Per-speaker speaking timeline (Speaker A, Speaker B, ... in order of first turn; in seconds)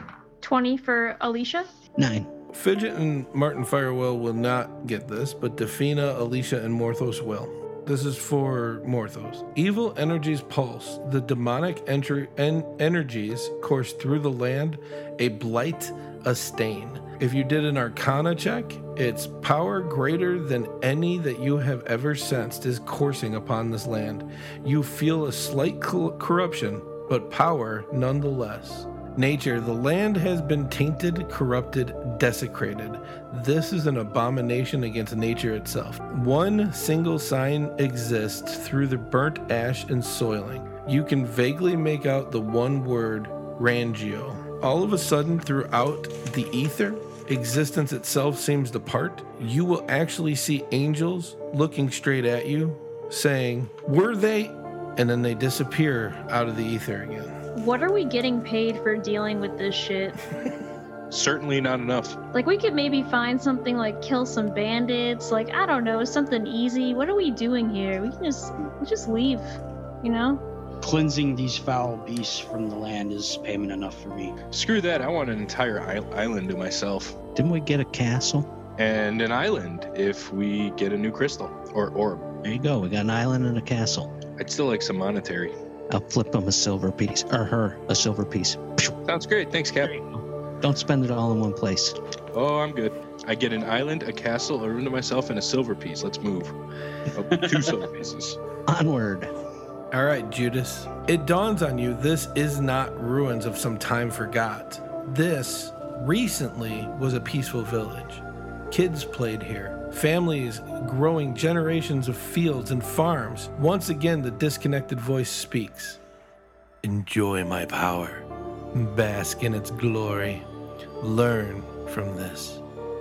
Speaker A: 0.4-1.7, 57.5-60.2, 62.3-70.4
Speaker B: 2.0-2.3, 77.3-78.5, 82.4-84.1, 85.9-89.0, 90.6-92.0, 98.7-99.3
Speaker C: 2.5-57.3, 99.9-116.0, 116.8-120.4, 121.0-122.6
Speaker D: 61.1-62.2, 74.5-77.2, 78.8-82.2, 84.4-85.5, 89.1-90.0, 92.3-96.5, 97.1-98.4
Speaker E: 70.8-74.3, 97.4-97.7